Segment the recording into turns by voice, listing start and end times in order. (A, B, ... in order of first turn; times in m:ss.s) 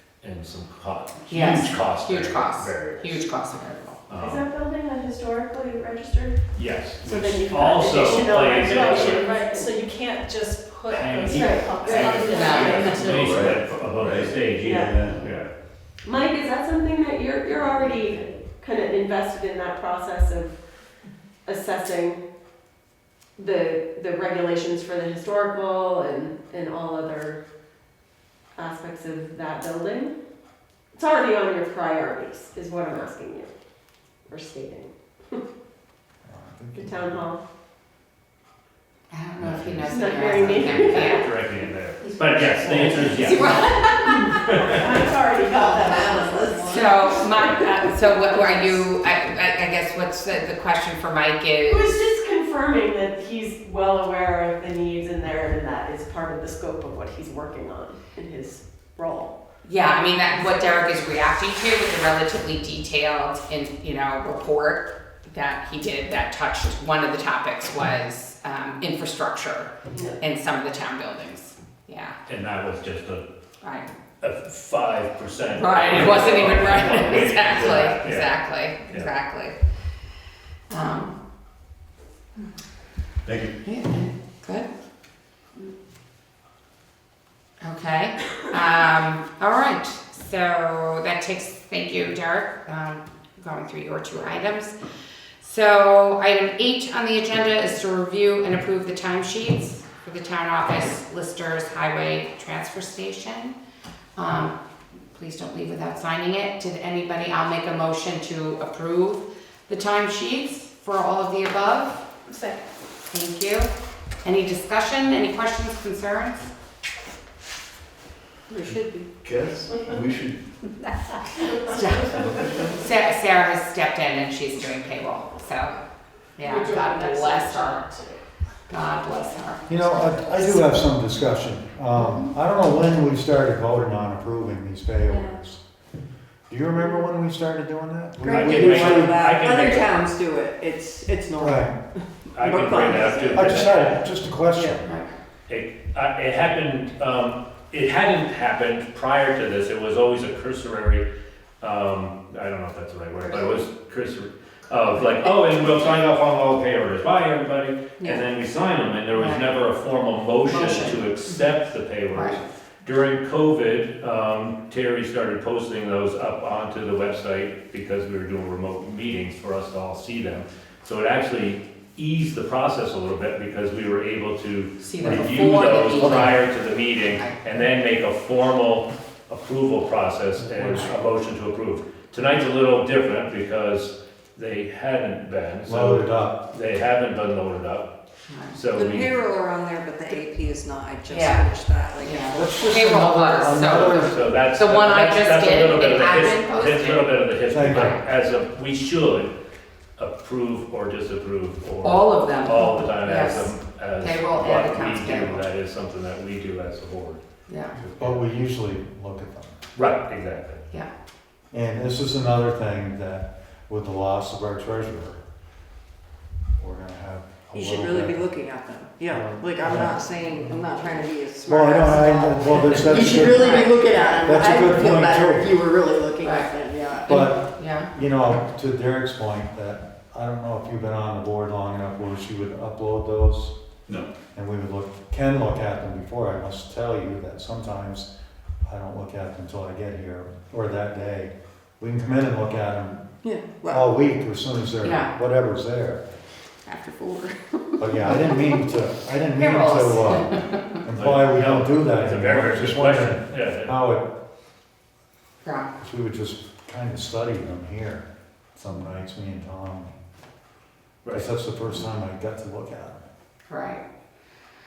0:00.2-0:03.2 A
0:01.3-0:04.0 B
0:04.1-0:04.4 A
0:04.2-0:06.4 C
0:06.5-0:09.3 A
0:07.0-0:10.4 C
0:09.1-0:13.4 D
0:10.9-0:15.5 A
0:11.2-0:13.0 C
0:12.3-0:13.1 B
0:13.0-0:15.3 E
0:14.6-0:15.0 C
0:16.0-0:20.6 C
0:21.4-0:22.2 C
0:23.4-0:27.4 C
0:28.6-0:30.2 C
0:30.9-0:33.5 C
0:34.3-0:35.4 C
0:36.2-0:37.2 F
0:36.7-0:37.4 C
0:39.1-0:41.3 B
0:39.4-0:39.8 F
0:39.8-0:41.3 C
0:40.5-0:45.0 A
0:42.0-0:44.4 B
0:42.9-0:43.7 C
0:44.6-0:46.9 C
0:44.8-0:47.9 G
0:46.7-0:52.0 B
0:51.7-0:59.4 C
0:59.6-1:12.2 B
1:12.3-1:13.2 A
1:13.6-1:13.9 B
1:14.2-1:19.1 A
1:15.6-1:19.6 B
1:20.7-1:21.2 B
1:23.2-1:23.5 E
1:23.6-1:24.7 B
1:27.6-1:34.8 B
1:35.4-1:43.5 B
1:44.2-1:44.6 B
1:45.1-1:52.1 B
1:53.1-1:53.7 B
1:54.2-1:56.5 B
1:58.5-1:59.1 G
1:58.6-2:00.4 E
2:01.6-2:02.0 B
2:02.1-2:02.9 E
2:02.8-2:05.8 B
2:06.4-2:07.9 B
2:08.7-2:10.4 B
2:09.7-2:15.6 F
2:11.9-2:12.3 B
2:16.5-2:19.2 F
2:18.2-2:23.6 G
2:18.3-2:20.0 A
2:21.4-2:21.8 F
2:22.3-2:24.0 A
2:23.3-2:24.8 F
2:24.5-2:24.9 G
2:25.5-2:31.0 A
2:31.6-3:07.9 A
2:39.1-2:39.5 B
2:40.4-2:41.0 B
2:42.1-2:42.4 B
2:54.8-2:56.4 B
2:55.0-2:56.4 F
2:57.1-2:57.4 B
3:00.4-3:00.9 F
3:00.6-3:00.9 B
3:05.7-3:06.4 F
3:08.3-3:08.6 B
3:08.5-3:09.1 A
3:08.8-3:12.6 G
3:11.1-3:18.0 B
3:12.3-3:14.3 F
3:13.6-3:19.3 A
3:17.5-3:18.0 F
3:20.0-3:27.2 A
3:21.8-3:25.4 B
3:27.5-3:27.8 B
3:27.7-3:28.2 E
3:28.0-3:29.6 F
3:29.8-3:30.6 A
3:31.5-3:35.2 F
3:36.6-3:38.2 F
3:37.5-3:47.1 G
3:39.0-3:40.7 F
3:41.4-3:45.6 F
3:42.7-3:44.8 B
3:46.2-3:47.9 B
3:47.1-3:53.5 F
3:54.3-3:58.1 F
3:58.6-4:03.1 F
4:03.2-4:03.9 G
4:03.7-4:06.0 F
4:04.8-4:05.1 B
4:06.6-4:08.6 G
4:07.8-4:14.1 F
4:09.3-4:10.7 B
4:10.9-4:13.7 A
4:15.4-4:15.7 B
4:15.8-4:19.9 F
4:21.1-4:23.1 F
4:23.5-4:23.8 B